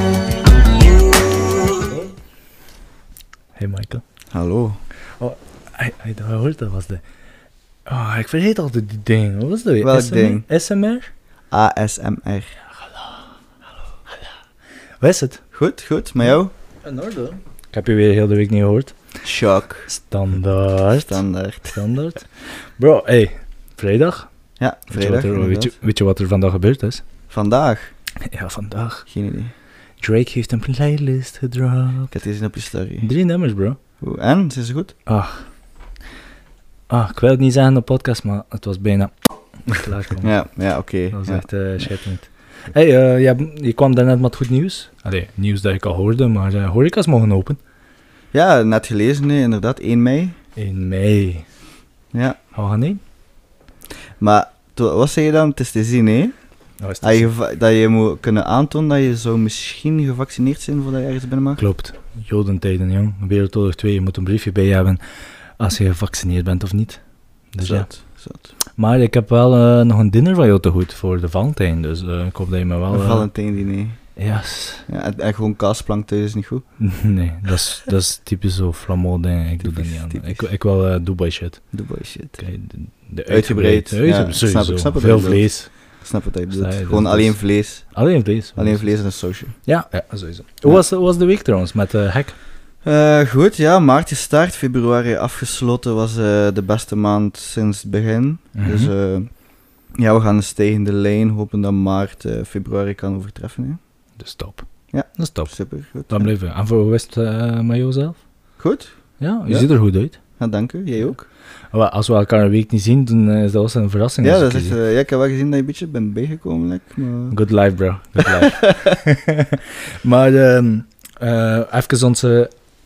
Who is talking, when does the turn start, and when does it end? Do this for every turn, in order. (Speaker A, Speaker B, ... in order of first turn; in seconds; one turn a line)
Speaker A: 3.5-4.0
Speaker B: 4.3-4.8
Speaker A: 5.2-7.0
Speaker A: 7.9-11.1
Speaker B: 9.8-10.5
Speaker B: 11.5-12.5
Speaker A: 12.8-13.2
Speaker A: 15.0-15.4
Speaker B: 15.5-16.5
Speaker A: 16.8-18.9
Speaker B: 19.2-19.9
Speaker A: 19.9-24.3
Speaker B: 21.1-21.8
Speaker B: 24.6-25.7
Speaker A: 24.9-27.0
Speaker B: 27.3-27.9
Speaker A: 28.3-29.1
Speaker B: 29.1-29.5
Speaker A: 30.0-32.1
Speaker B: 32.1-33.1
Speaker A: 33.0-33.8
Speaker B: 34.0-35.0
Speaker A: 35.1-35.5
Speaker A: 36.9-47.6
Speaker B: 40.2-42.0
Speaker B: 48.3-50.4
Speaker A: 50.6-51.5
Speaker B: 52.1-52.4
Speaker A: 52.5-53.0
Speaker B: 54.2-61.6
Speaker A: 56.8-57.3
Speaker A: 61.6-65.0
Speaker A: 65.6-68.2
Speaker B: 67.6-68.5
Speaker A: 68.7-73.3
Speaker B: 72.9-74.3
Speaker A: 74.2-74.8
Speaker B: 74.9-76.7
Speaker A: 76.8-92.4
Speaker B: 79.6-80.5
Speaker B: 81.7-82.5
Speaker B: 83.3-89.9
Speaker B: 92.8-103.8
Speaker A: 98.5-98.9
Speaker A: 104.2-108.2
Speaker B: 104.9-106.3
Speaker B: 108.6-111.3
Speaker A: 109.2-110.2
Speaker A: 111.7-114.8
Speaker B: 114.2-117.4
Speaker A: 117.3-122.5